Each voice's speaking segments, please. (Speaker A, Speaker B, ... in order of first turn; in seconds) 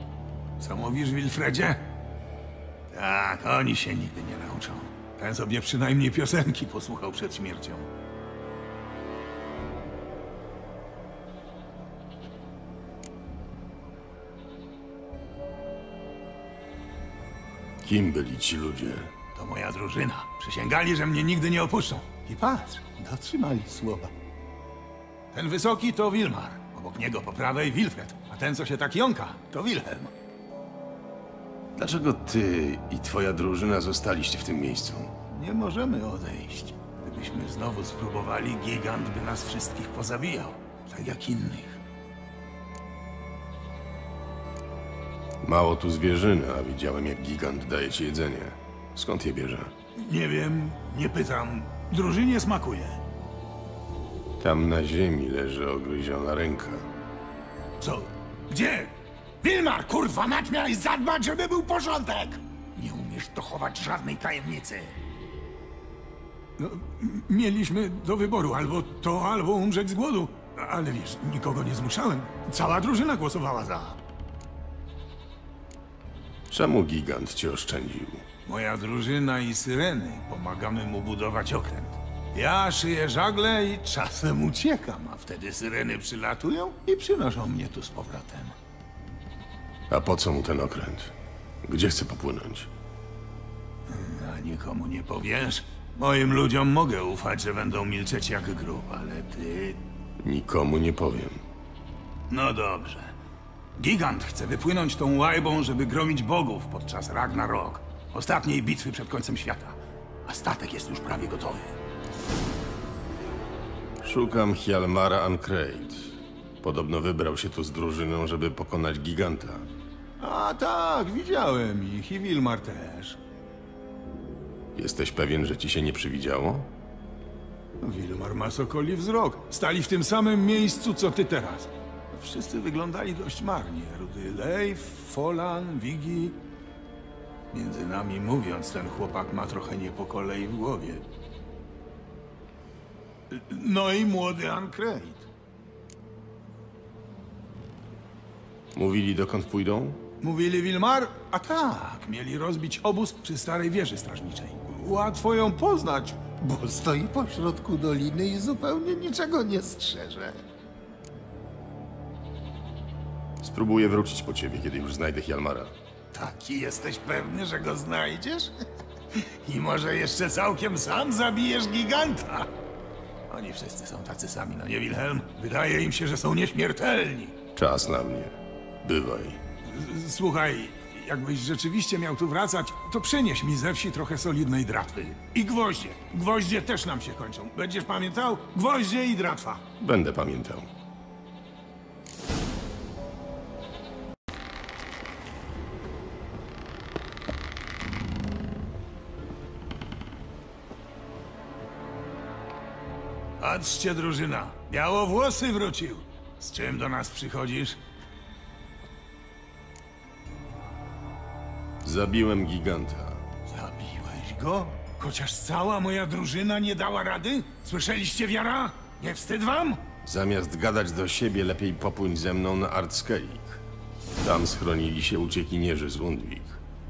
Speaker A: 0.6-1.9, 2.9-7.9, 19.3-24.1, 25.3-30.1, 35.3-41.8, 50.0-53.0, 57.8-65.0, 66.6-74.0, 78.4-88.5, 93.9-99.8, 102.3-103.1, 103.8-111.8, 120.2-123.2, 127.8-136.4, 137.5-141.0, 143.3-145.3, 150.2-160.4, 166.1-168.5, 169.1-172.5, 173.3-177.4, 179.6-189.7, 203.4-207.8, 213.5-219.8
Speaker B: 17.8-19.1, 31.8-35.1, 45.4-49.7, 54.4-56.9, 76.5-78.2, 89.9-91.1, 91.6-92.7, 100.2-101.4, 114.0-119.7, 124.7-126.7, 148.7-150.0, 163.4-165.7, 177.6-179.4, 189.8-190.7, 211.8-213.2, 220.0-223.6, 224.2-226.6